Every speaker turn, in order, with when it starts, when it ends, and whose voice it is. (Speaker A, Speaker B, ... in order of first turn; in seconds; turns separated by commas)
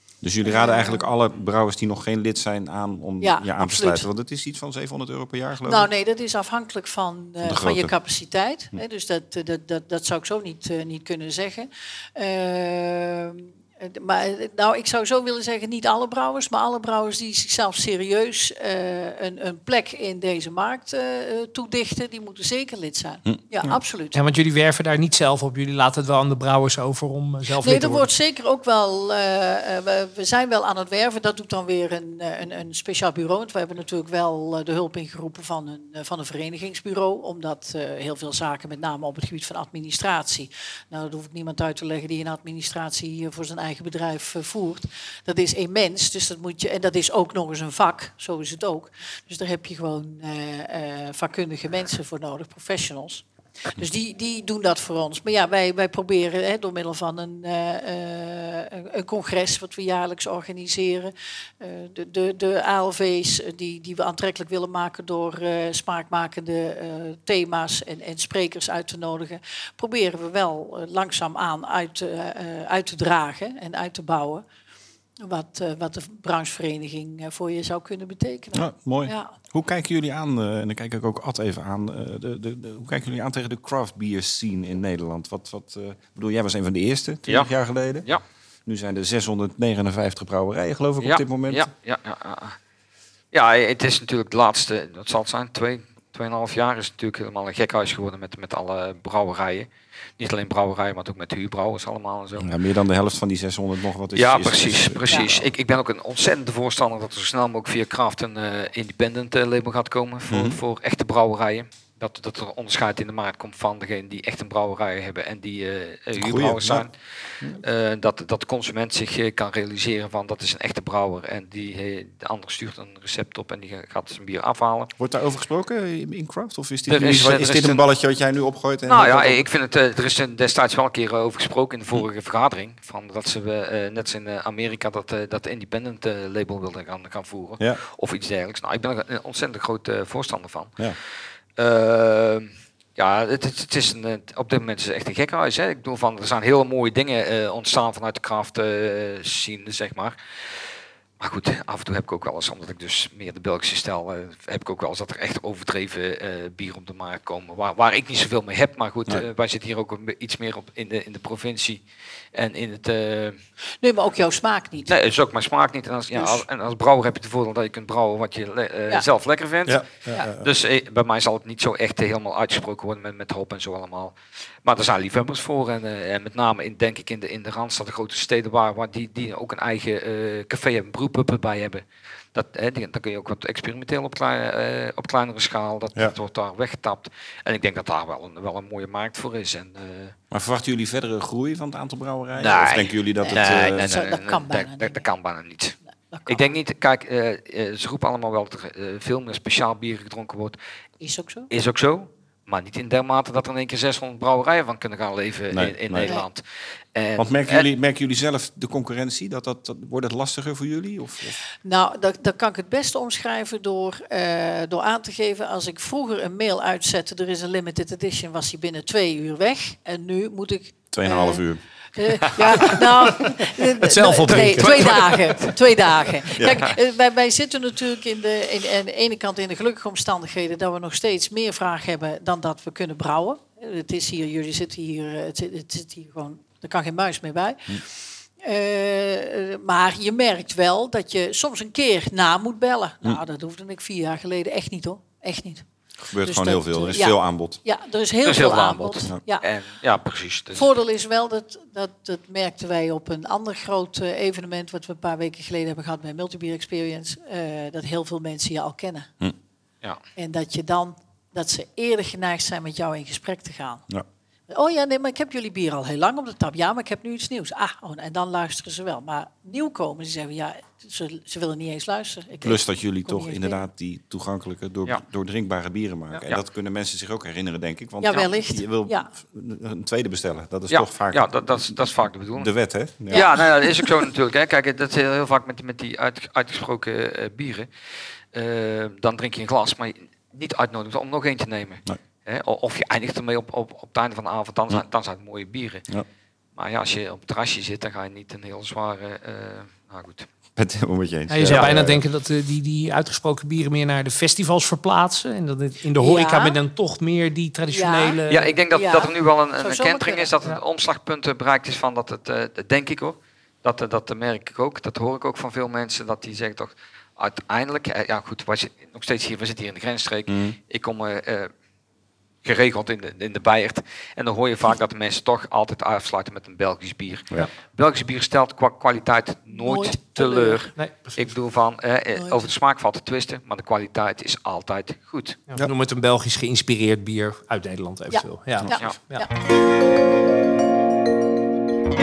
Speaker A: 0.2-5.9, Speaker B: 0.4-1.1, Speaker B: 3.2-4.1, Speaker B: 5.6-24.2, Speaker A: 7.4-7.9, Speaker A: 23.3-23.8, Speaker C: 24.1-28.1, Speaker B: 27.5-74.4, Speaker B: 75.2-79.3, Speaker A: 78.5-88.1, Speaker A: 88.7-91.7, Speaker D: 91.0-92.6, Speaker D: 93.3-99.7, Speaker D: 100.2-102.5, Speaker A: 102.4-105.5, Speaker D: 104.1-116.9, Speaker A: 110.3-110.6, Speaker A: 116.2-116.8, Speaker D: 117.6-124.9, Speaker A: 125.0-129.4, Speaker D: 126.9-127.8, Speaker D: 128.9-140.8, Speaker D: 141.6-161.8, Speaker D: 162.3-163.4, Speaker B: 163.8-164.9, Speaker D: 164.9-190.2, Speaker B: 166.1-166.4, Speaker A: 169.7-170.5, Speaker A: 190.3-193.9, Speaker D: 192.4-195.8, Speaker B: 193.2-195.1, Speaker B: 196.1-196.5, Speaker D: 196.3-200.6, Speaker B: 201.0-201.5, Speaker D: 201.5-206.4, Speaker A: 205.5-206.1, Speaker D: 206.9-207.7, Speaker A: 207.2-211.4, Speaker B: 211.6-221.4, Speaker A: 220.9-221.6, Speaker B: 221.9-245.7, Speaker A: 222.2-223.4, Speaker C: 223.8-225.3, Speaker A: 224.3-225.1, Speaker A: 226.3-226.7, Speaker A: 246.1-247.6, Speaker B: 246.2-249.5, Speaker D: 248.2-250.7, Speaker B: 250.5-259.1, Speaker B: 260.2-263.8, Speaker B: 264.5-273.6, Speaker A: 272.4-281.7, Speaker B: 278.0-279.1, Speaker D: 280.7-282.5, Speaker A: 282.4-283.2, Speaker D: 283.1-287.7, Speaker B: 283.1-283.9, Speaker D: 288.3-295.9, Speaker D: 296.6-300.3, Speaker A: 300.6-302.0, Speaker C: 301.3-308.6, Speaker D: 301.5-301.8, Speaker B: 306.0-306.6, Speaker B: 307.7-310.3, Speaker D: 308.3-321.5, Speaker A: 320.3-320.6, Speaker D: 322.4-335.4, Speaker B: 329.5-330.7, Speaker C: 330.8-331.2, Speaker B: 332.1-332.5, Speaker C: 335.5-339.3, Speaker B: 338.1-339.3